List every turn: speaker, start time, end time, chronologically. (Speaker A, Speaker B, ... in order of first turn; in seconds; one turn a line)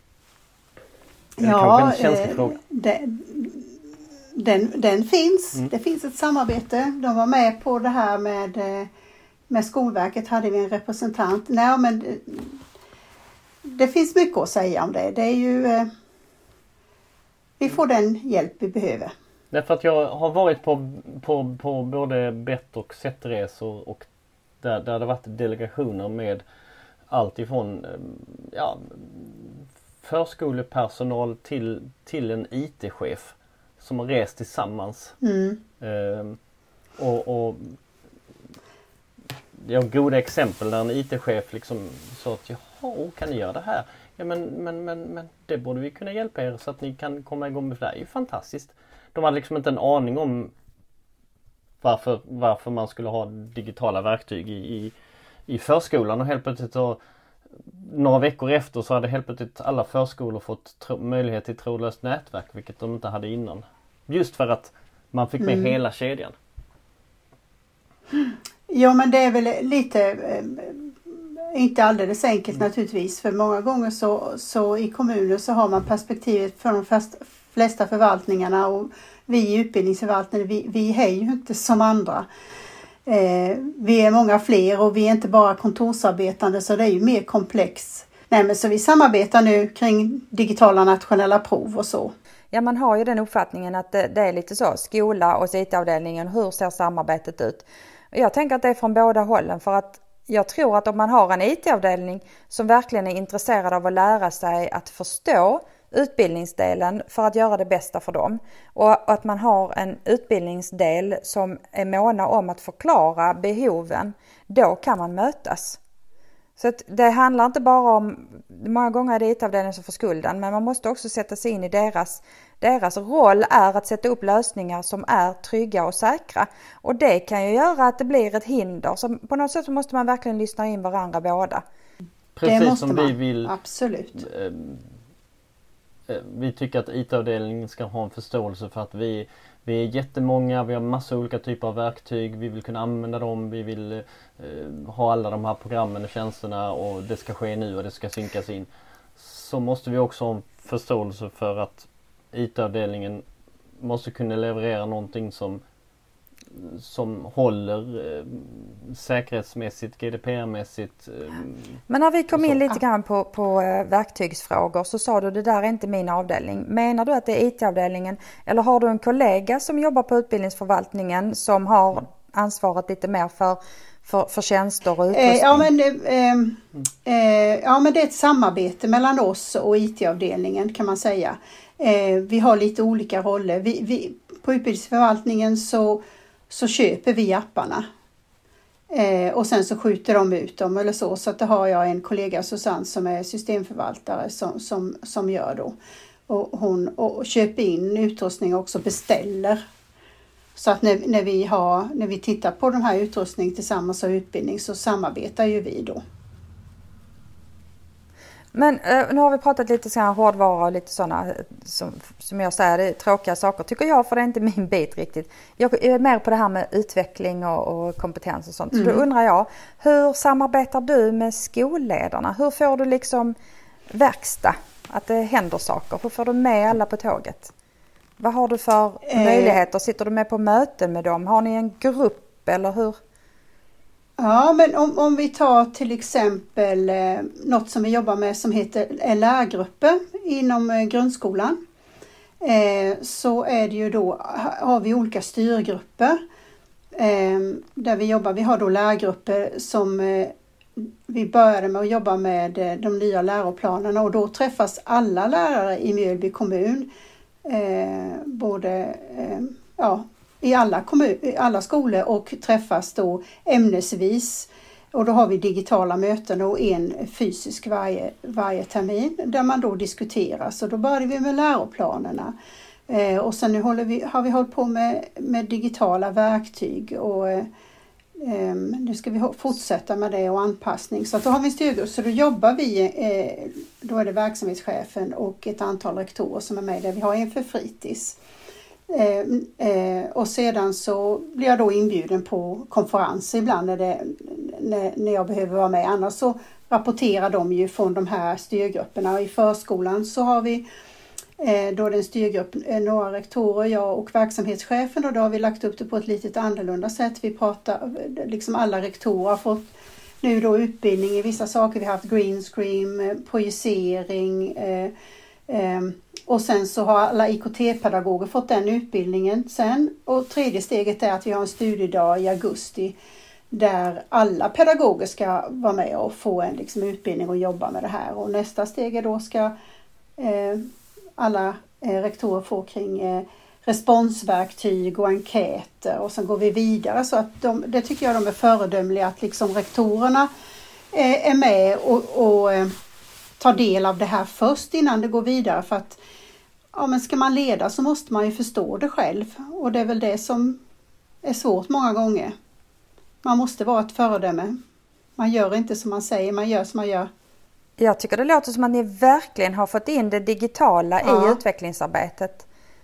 Speaker A: 1.4-3.7
Speaker B: 1.4-2.6
Speaker A: 4.3-8.9
Speaker A: 9.5-12.6
Speaker A: 13.6-15.9
Speaker A: 17.6-19.1
Speaker B: 19.5-24.1
Speaker B: 24.6-26.4
Speaker B: 27.1-35.2
Speaker A: 35.2-35.6
Speaker B: 35.8-36.4
Speaker B: 37.0-37.8
Speaker B: 39.5-50.5
Speaker B: 51.8-54.9
Speaker B: 55.5-57.0
Speaker B: 57.6-66.3
Speaker A: 65.4-65.7
Speaker A: 68.2-82.3
Speaker A: 83.0-92.1
Speaker C: 92.5-115.8
Speaker C: 116.6-131.6
Speaker B: 132.3-133.5
Speaker A: 132.4-134.2
Speaker B: 134.1-134.9
Speaker B: 136.1-153.2
Speaker B: 153.8-155.6
Speaker B: 156.5-161.8
Speaker C: 161.9-175.7
Speaker B: 162.3-162.6
Speaker A: 175.1-187.8
Speaker A: 188.9-195.7
Speaker A: 196.3-199.6
Speaker A: 200.6-206.0
Speaker C: 208.5-223.3
Speaker A: 218.7-219.0
Speaker C: 223.9-227.5
Speaker C: 228.2-233.0
Speaker A: 229.1-229.6
Speaker A: 234.2-241.6
Speaker A: 242.4-246.2
Speaker A: 246.9-256.9
Speaker A: 257.4-272.3
Speaker A: 272.9-277.5
Speaker A: 278.2-288.2
Speaker A: 288.9-300.6
Speaker A: 301.4-309.7
Speaker A: 310.2-314.9
Speaker A: 315.5-322.9
Speaker A: 323.5-329.5
Speaker A: 330.2-340.3
Speaker A: 340.9-342.7
Speaker A: 343.4-346.0
Speaker A: 346.7-350.6
Speaker A: 351.2-352.3
Speaker A: 353.2-354.6
Speaker A: 355.2-357.1
Speaker C: 357.8-362.4
Speaker A: 361.0-361.4